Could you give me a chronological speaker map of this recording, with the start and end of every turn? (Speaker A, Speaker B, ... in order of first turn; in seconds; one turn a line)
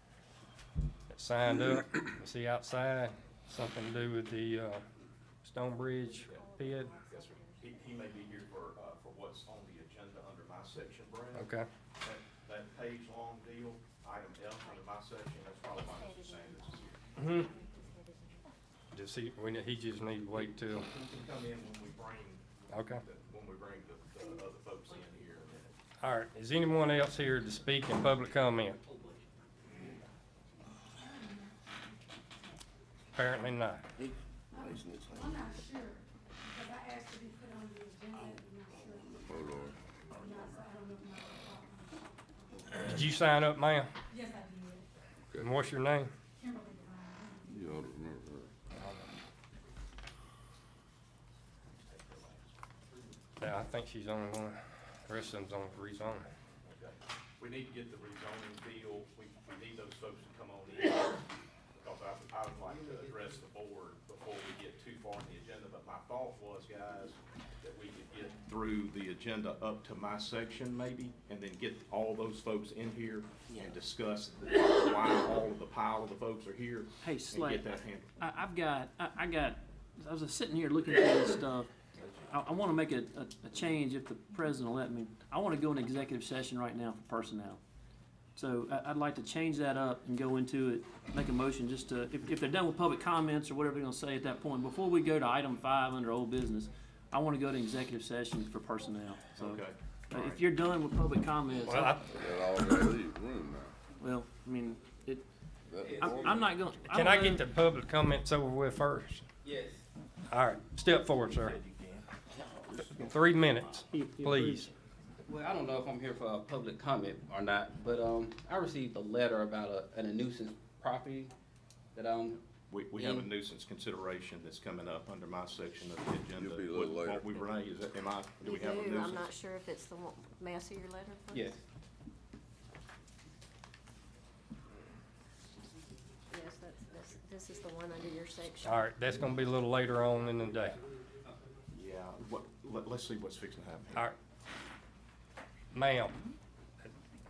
Speaker A: 1.1-4.8
Speaker A: 5.4-7.0
Speaker B: 6.2-6.5
Speaker B: 7.0-11.5
Speaker A: 11.3-11.7
Speaker B: 12.0-17.1
Speaker A: 17.2-17.5
Speaker A: 18.9-20.8
Speaker B: 20.8-25.8
Speaker A: 22.7-23.0
Speaker A: 26.0-28.8
Speaker A: 33.1-33.8
Speaker C: 34.5-39.6
Speaker D: 39.3-39.7
Speaker C: 40.1-42.7
Speaker A: 42.8-43.9
Speaker C: 44.1-44.9
Speaker A: 45.4-46.1
Speaker C: 46.4-47.6
Speaker D: 47.5-48.5
Speaker B: 51.8-52.5
Speaker A: 53.4-56.3
Speaker B: 56.6-61.2
Speaker B: 61.7-78.1
Speaker E: 77.0-81.7
Speaker E: 82.3-87.6
Speaker E: 88.3-102.0
Speaker B: 99.3-100.4
Speaker A: 101.6-102.2
Speaker D: 102.1-103.7
Speaker E: 104.0-105.2
Speaker D: 105.7-106.5
Speaker F: 105.8-106.2
Speaker E: 106.0-107.4
Speaker A: 106.9-109.2
Speaker F: 109.4-109.8
Speaker A: 110.3-111.6
Speaker A: 113.0-114.7
Speaker E: 113.9-114.7
Speaker F: 115.3-121.3
Speaker F: 121.9-122.4
Speaker B: 122.7-129.3
Speaker D: 126.4-127.3
Speaker G: 128.4-131.5
Speaker F: 131.3-131.6
Speaker G: 136.3-138.9
Speaker A: 138.6-140.8
Speaker B: 141.7-144.1
Speaker A: 145.7-146.2